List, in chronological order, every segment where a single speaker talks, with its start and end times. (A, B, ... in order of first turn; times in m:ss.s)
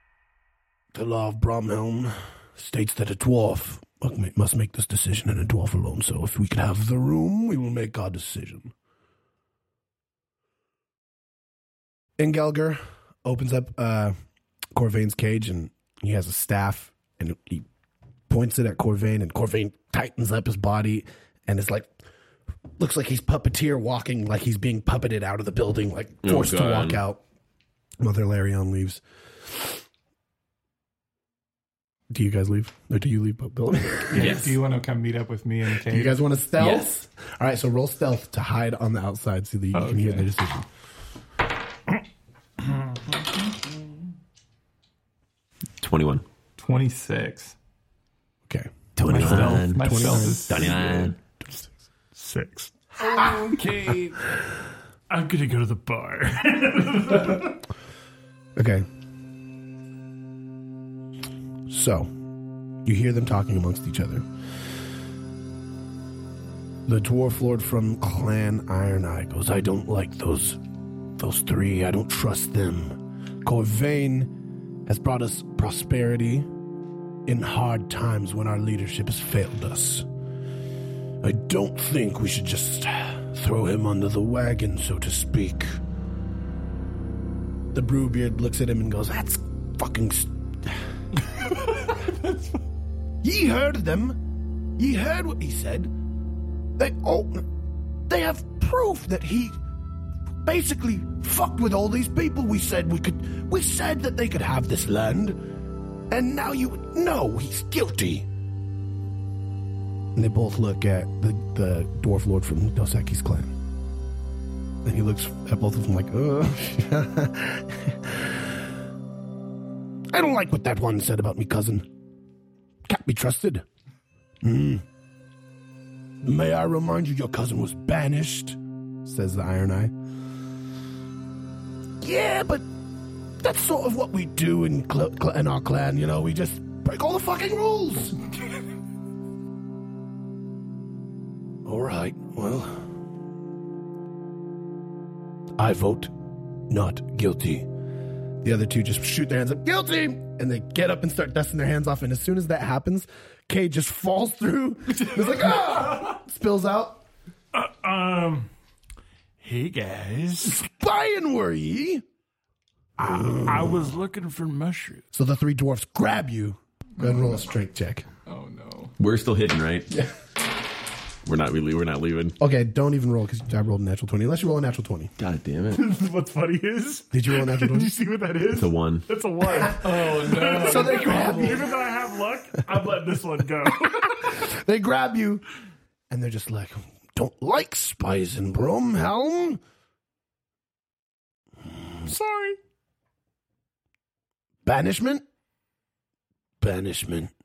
0:00.9-0:08.7 A
0:12.2-0:14.1 A
0:14.7-0:17.7 A
0:18.3-0:21.9 A
0:22.8-0:27.2 A
0:26.2-0:27.0 B
0:28.0-0:29.8 A
0:32.1-0:34.4 A
0:34.1-0:36.2 C
0:34.1-0:34.6 B
0:35.8-0:40.7 A
0:36.6-0:36.9 B
0:39.7-0:40.3 C
0:45.8-0:46.2 B
0:46.6-0:47.6 C
0:48.5-0:51.1 A
0:49.0-0:51.2 B
0:49.1-0:50.8 C
0:51.5-0:53.6 D
0:53.1-0:53.5 A
0:53.5-0:54.0 C
0:55.1-0:57.5 D
0:58.6-0:58.9 A
1:01.7-1:02.1 A
1:02.8-1:04.3 A
1:06.9-1:10.6 A
1:11.2-1:14.3 A
1:14.9-1:16.5 A
1:17.3-1:20.0 A
1:21.2-1:25.8 A
1:27.7-1:30.8 A
1:32.0-1:32.5 C
1:33.2-1:34.2 A
1:34.8-1:35.9 A
1:36.8-1:37.4 A
1:38.1-1:39.6 A
1:40.4-1:45.4 A
1:46.1-1:48.3 A
1:50.2-1:53.6 A
1:54.8-1:58.6 A
2:00.1-2:01.8 A
2:02.9-2:03.6 A
2:04.4-2:04.8 A
2:06.2-2:09.9 A
2:12.0-2:12.7 A
2:13.4-2:18.2 A
2:21.6-2:22.9 A
2:25.6-2:26.1 A
2:26.7-2:27.7 A
2:28.4-2:37.0 A
2:37.5-2:38.5 D
2:39.4-2:40.6 D
2:40.4-2:42.0 A
2:43.0-2:45.0 D
2:43.0-2:43.9 A
2:45.1-2:48.1 A
2:48.3-2:49.0 C
2:49.0-2:50.0 B
2:51.2-2:52.4 B
2:52.4-2:55.1 A
2:55.2-2:55.8 B
2:55.7-3:04.3 D
2:57.1-2:57.9 A
2:58.5-2:59.1 B
2:59.8-3:01.6 C
3:00.6-3:01.8 A
3:03.9-3:05.4 A
3:06.1-3:09.6 A
3:12.0-3:12.6 D
3:14.6-3:15.2 A
3:16.6-3:17.3 A